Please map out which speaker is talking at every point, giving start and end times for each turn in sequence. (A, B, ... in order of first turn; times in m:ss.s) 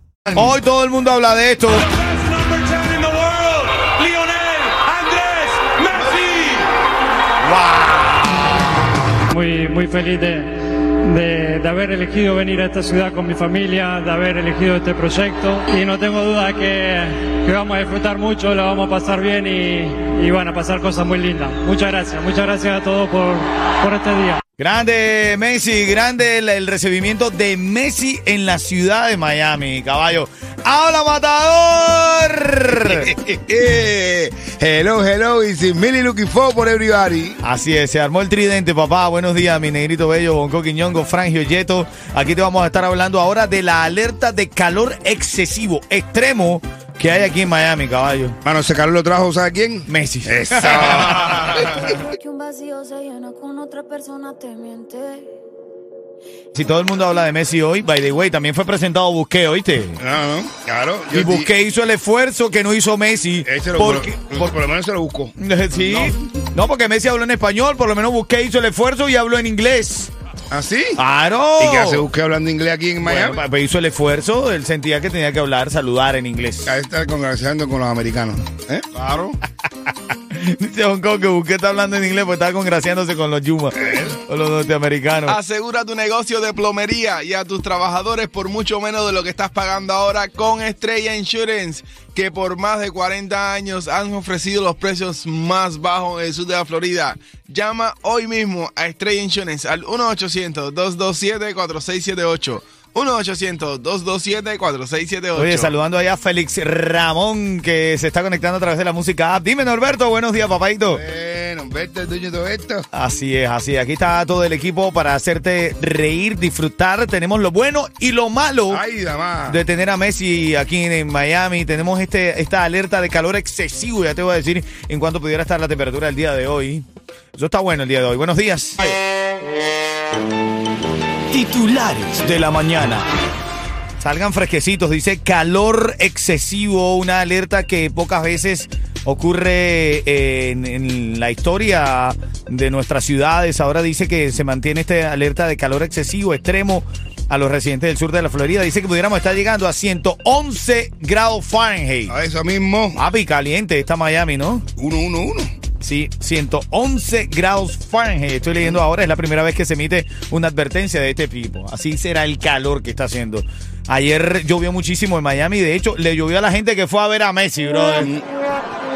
0:00.3-0:01.9 A
0:02.8-0:03.3 B
0:02.8-0:03.6 C
0:04.4-0:04.7 C
0:04.9-0:05.4 B
0:05.3-0:06.5 C
0:07.4-0:08.7 A
0:09.3-0:24.4 B
0:24.6-0:33.1 A
0:32.8-0:37.4 D
0:37.4-0:48.4 A
0:48.4-0:51.9 D
0:49.9-0:51.6 A
0:51.7-0:55.4 E
0:56.6-1:00.0 A
1:00.0-1:01.5 D
1:01.1-1:04.6 A
1:03.4-1:05.4 D
1:05.4-1:10.1 A
1:10.5-1:11.0 D
1:11.0-1:12.1 A
1:11.6-1:13.4 D
1:13.0-1:16.8 A
1:16.7-1:18.9 D
1:18.9-1:19.4 C
1:19.9-1:25.4 A
1:23.8-1:24.2 D
1:25.3-1:45.7 C
1:45.4-1:51.0 A
1:50.9-1:52.9 D
1:52.9-1:58.8 A
1:58.7-1:59.6 D
1:59.5-2:09.0 A
2:11.3-2:13.1 A
2:14.0-2:32.2 A
2:32.1-2:33.0 D
2:33.0-2:34.7 A
2:34.8-2:35.6 D
2:35.8-2:48.1 A
2:48.0-2:48.2 D